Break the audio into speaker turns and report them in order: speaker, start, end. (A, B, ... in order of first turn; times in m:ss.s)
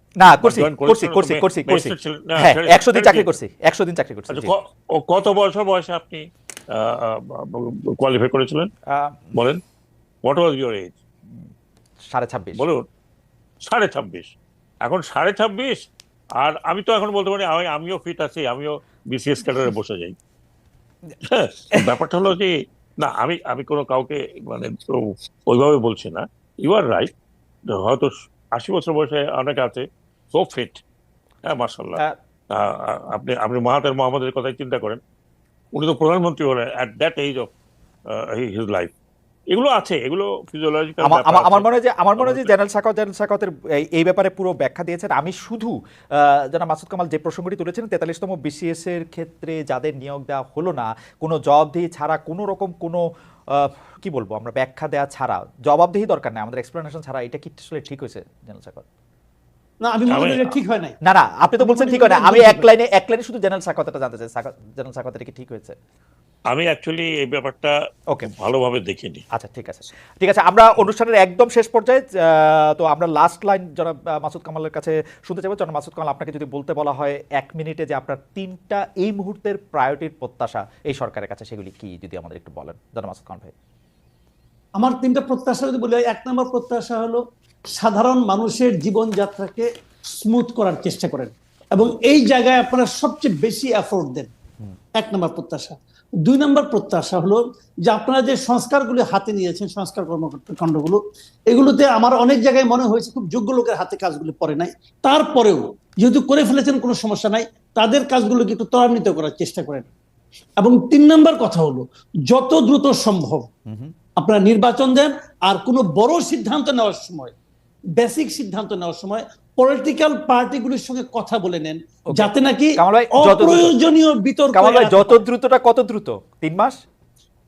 0:00.2-0:04.5 A
0:00.4-0:03.3 B
0:04.3-0:08.7 B
0:08.9-0:09.3 A
0:09.3-0:09.6 B
0:10.2-0:11.0 B
0:12.1-0:12.6 A
0:12.6-0:12.8 B
0:13.6-0:14.3 B
0:14.8-0:15.8 B
0:16.4-0:20.2 B
0:21.2-0:27.1 B
0:27.7-0:30.8 B
0:31.4-0:32.0 B
0:32.5-0:35.0 B
0:35.7-0:37.5 B
0:38.1-0:38.9 B
0:39.5-0:42.5 B
0:41.0-0:58.8 A
0:59.8-1:00.9 C
1:00.1-1:00.5 B
1:01.0-1:05.8 A
1:01.6-1:02.7 C
1:06.5-1:09.2 B
1:09.3-1:23.5 A
1:24.8-1:27.2 C
1:27.8-1:34.3 C
1:35.0-1:49.9 C
1:50.6-1:53.5 C
1:53.7-1:53.9 A
1:54.2-1:57.3 C
1:58.0-2:05.2 C
2:02.1-2:03.7 A
2:04.5-2:06.8 A